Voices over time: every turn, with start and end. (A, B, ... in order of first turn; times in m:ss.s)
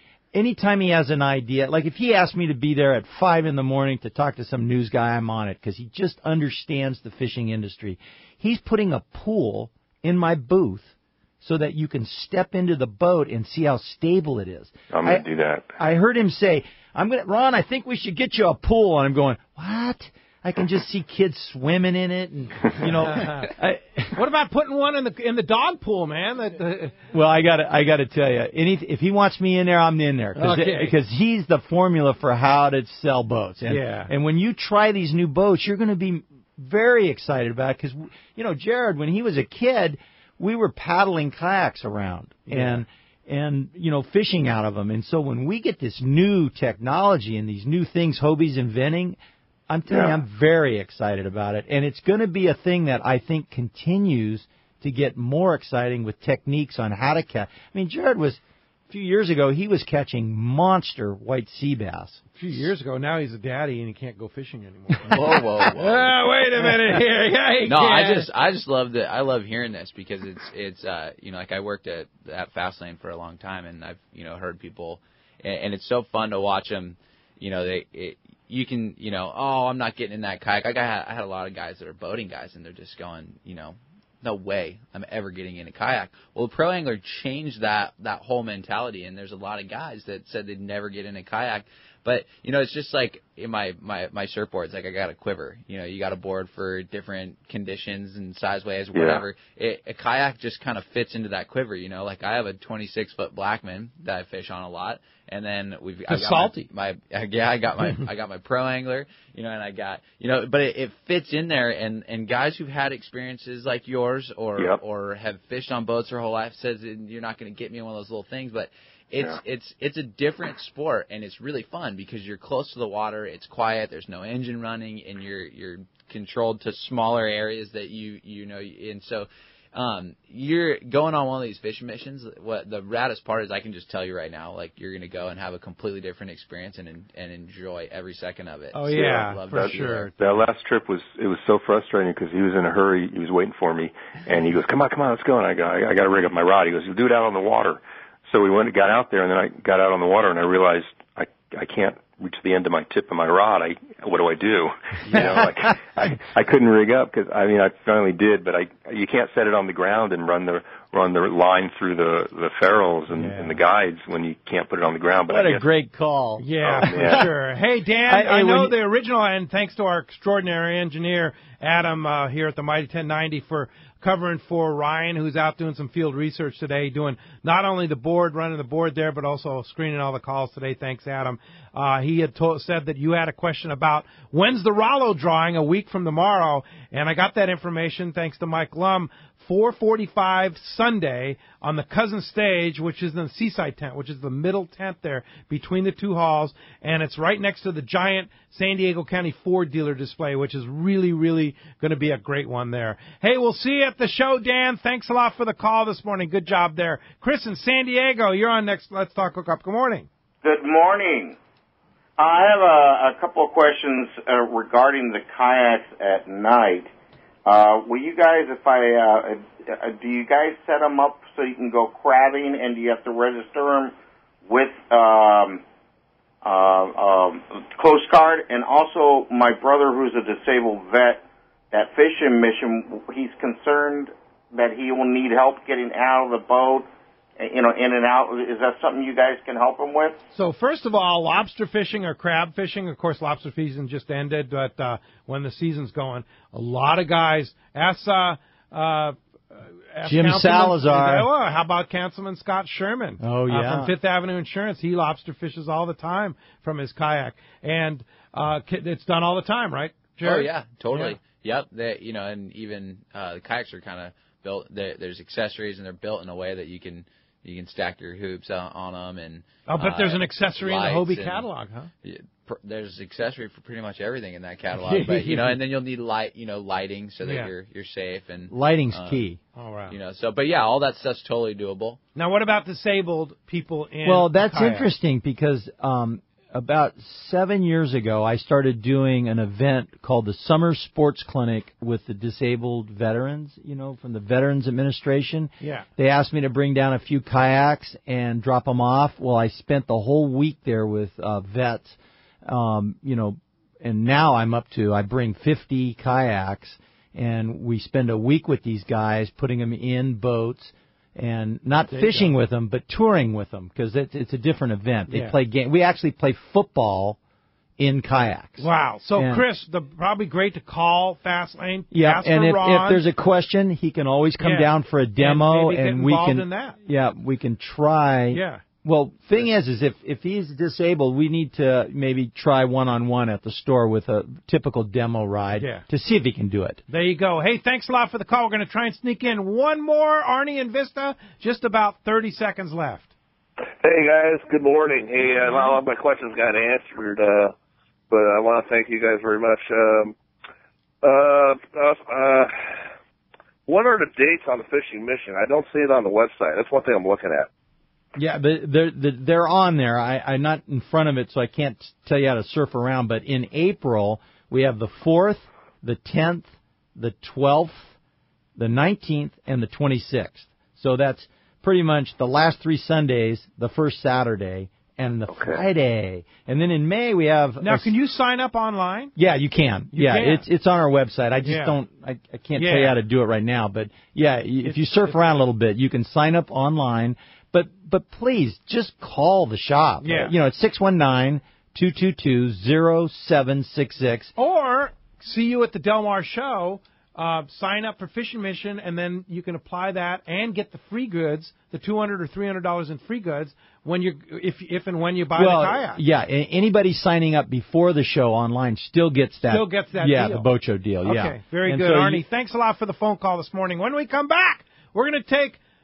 0:00.3-0:15.3 A
0:14.9-0:15.8 B
0:15.8-0:24.2 A
0:22.8-0:23.5 C
0:24.2-0:27.0 C
0:27.1-0:49.2 A
0:30.4-0:30.9 C
0:33.6-0:34.1 C
0:42.5-0:42.8 C
0:49.7-1:02.2 A
0:49.9-0:50.2 B
1:02.4-1:08.3 C
1:05.1-1:06.3 D
1:07.6-2:20.1 D
1:38.9-1:39.3 B
1:46.1-1:46.7 C
2:18.7-2:20.1 C
2:20.2-2:45.6 B
2:35.1-2:35.6 A
2:43.1-2:43.6 C
2:45.3-2:47.3 A
2:46.4-3:30.1 C
2:46.6-2:47.3 B
2:48.1-2:48.8 A
3:30.4-3:31.4 E
3:32.2-3:36.9 E
3:37.5-3:43.9 E
3:44.5-3:45.6 E
3:46.4-3:56.9 E
3:57.4-4:00.2 E
4:00.3-4:21.2 C
4:10.0-4:11.3 A
4:13.2-4:13.9 A
4:20.2-4:31.5 D
4:29.7-4:31.9 C
4:32.0-4:39.2 D
4:34.7-4:35.6 C
4:37.2-4:37.5 C
4:38.5-4:39.4 A
4:39.5-4:40.0 C
4:39.9-4:42.0 D
4:42.2-4:44.9 C
4:44.0-5:17.2 A
4:55.6-4:55.9 C
5:11.9-5:12.3 C
5:15.1-5:15.4 C
5:17.8-5:19.4 A
5:18.6-5:23.0 C
5:21.9-5:36.8 A
5:24.4-5:26.8 C
5:28.3-5:28.6 C
5:35.6-5:35.8 C
5:36.9-5:43.1 C
5:43.8-5:47.6 F
5:48.1-5:50.2 F
5:51.0-5:52.8 F
5:53.7-5:57.5 F
5:58.2-6:07.9 A
6:08.6-6:17.9 A
6:17.6-6:19.1 C
6:19.2-6:34.3 A
6:19.9-6:20.4 C
6:21.4-6:21.8 C
6:22.6-6:23.0 C
6:24.6-6:25.1 C
6:30.0-6:30.3 C
6:34.4-6:46.0 C
6:45.4-6:52.2 A
6:49.4-6:50.5 C
6:51.0-6:55.6 C